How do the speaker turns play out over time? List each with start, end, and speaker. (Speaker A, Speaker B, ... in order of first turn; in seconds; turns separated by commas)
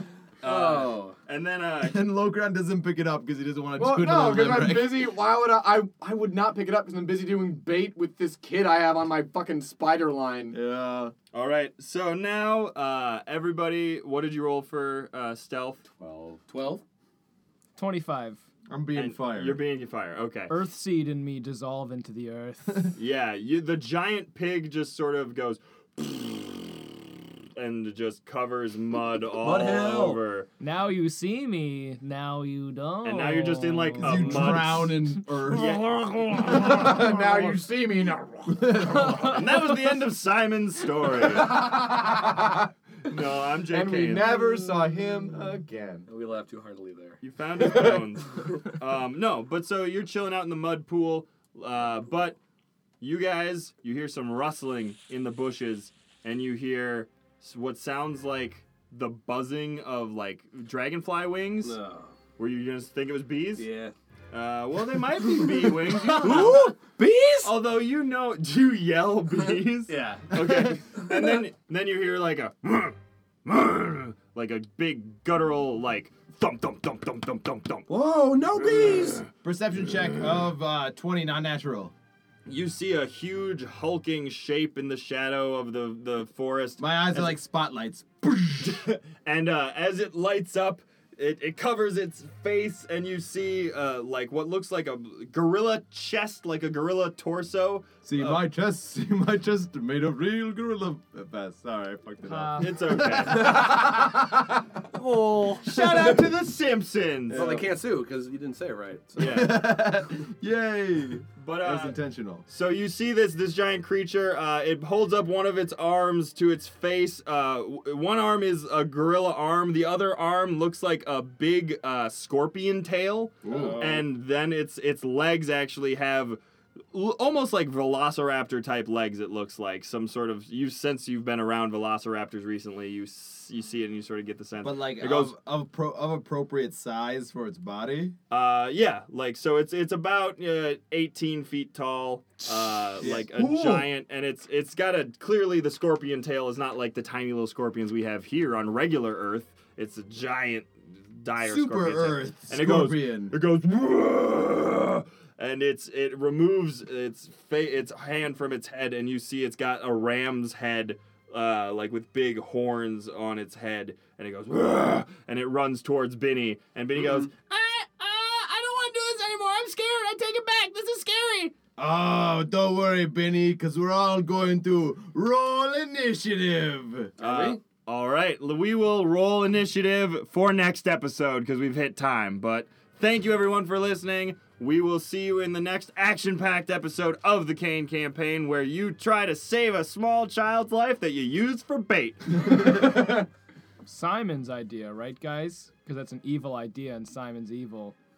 Speaker A: 0.4-2.1, Speaker B: 0.4-1.1, Speaker C: 1.8-5.1, Speaker D: 3.8-10.6, Speaker C: 10.5-11.1, Speaker A: 11.3-15.8, Speaker D: 15.8-16.4, Speaker B: 16.5-16.8, Speaker E: 17.8-18.4, Speaker C: 18.7-19.6, Speaker A: 18.9-20.6, Speaker E: 20.5-22.9, Speaker A: 23.0-26.8, Speaker A: 27.6-30.5, Speaker B: 29.4-30.2, Speaker E: 30.6-34.9, Speaker A: 33.0-37.5, Speaker C: 34.0-35.8, Speaker D: 36.3-39.3, Speaker C: 38.5-39.5, Speaker A: 39.2-41.7, Speaker D: 41.4-42.4, Speaker A: 43.0-44.3, Speaker D: 43.7-46.1, Speaker B: 46.1-48.6, Speaker A: 47.2-52.4, Speaker A: 53.0-61.8, Speaker B: 61.6-62.1, Speaker A: 62.4-63.7, Speaker B: 63.6-63.9, Speaker A: 64.3-66.8, Speaker B: 65.3-67.5, Speaker A: 67.4-77.9, Speaker B: 69.9-71.0, Speaker B: 77.9-79.3, Speaker C: 79.4-81.9, Speaker A: 82.5-87.4, Speaker C: 86.8-88.9, Speaker A: 88.6-98.5, Speaker C: 98.0-104.2, Speaker E: 102.2-102.8, Speaker A: 102.6-103.8, Speaker B: 103.4-103.8, Speaker E: 105.0-105.7, Speaker A: 105.6-107.6, Speaker C: 107.3-107.7, Speaker B: 107.3-109.7, Speaker A: 109.2-109.7, Speaker C: 109.2-112.5, Speaker A: 111.4-126.4, Speaker C: 123.4-123.8, Speaker B: 123.5-123.9, Speaker A: 126.9-135.3, Speaker C: 134.6-138.2, Speaker A: 138.3-167.3, Speaker C: 143.0-143.9, Speaker C: 151.4-153.4, Speaker F: 167.4-171.5, Speaker C: 171.8-177.1, Speaker A: 177.2-192.5, Speaker B: 177.2-177.6, Speaker C: 192.5-192.8, Speaker E: 193.8-198.0